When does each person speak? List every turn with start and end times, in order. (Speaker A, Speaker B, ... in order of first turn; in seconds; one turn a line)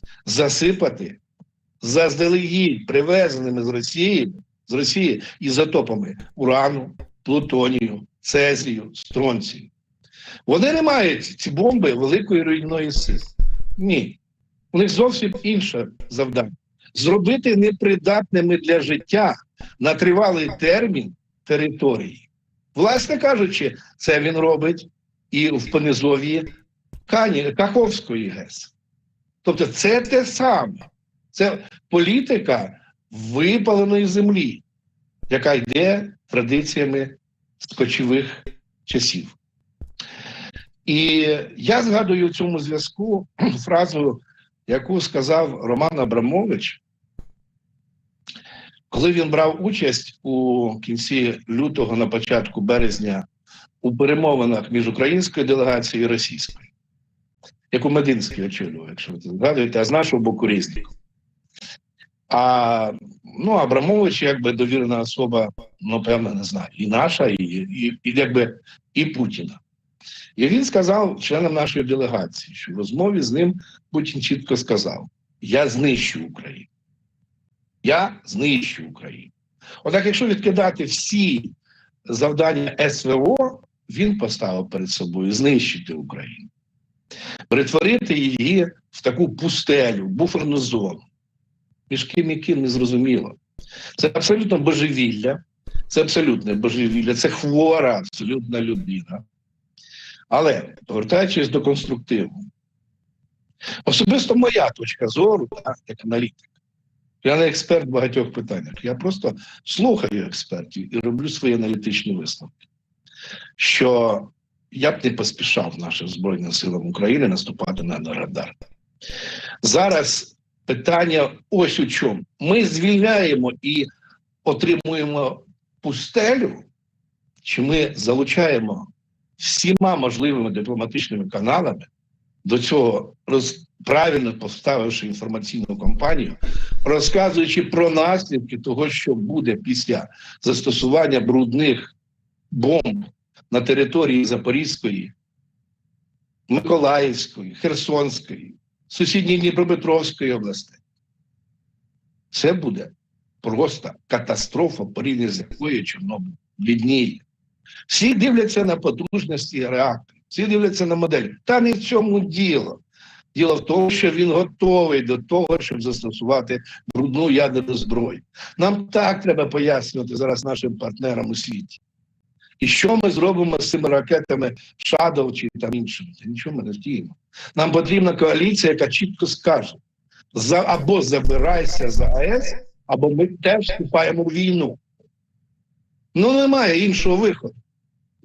Speaker A: 0.2-1.2
Speaker A: 1.8-9.7
Speaker A: 10.4-14.2
Speaker A: 14.7-26.5
Speaker A: 27.1-28.7
Speaker A: 29.4-34.6
Speaker A: 35.3-39.4
Speaker A: 40.9-46.8
Speaker A: 48.9-53.2
Speaker A: 53.8-56.7
Speaker A: 57.7-60.9
Speaker A: 62.3-69.6
Speaker A: 70.4-76.7
Speaker A: 77.8-79.3
Speaker A: 79.8-81.5
Speaker A: 82.1-86.5
Speaker A: 87.5-91.1
Speaker A: 91.9-93.4
Speaker A: 94.0-99.2
Speaker A: 100.3-102.5
Speaker A: 103.8-106.5
Speaker A: 107.2-112.5
Speaker A: 113.6-118.5
Speaker A: 119.6-123.9
Speaker A: 124.4-126.7
Speaker A: 127.4-128.9
Speaker A: 129.4-131.9
Speaker A: 132.4-141.9
Speaker A: 142.5-145.1
Speaker A: 146.5-150.8
Speaker A: 152.3-157.2
Speaker A: 157.9-162.8
Speaker A: 163.3-171.8
Speaker A: 172.6-179.8
Speaker A: 180.3-184.8
Speaker A: 186.1-187.5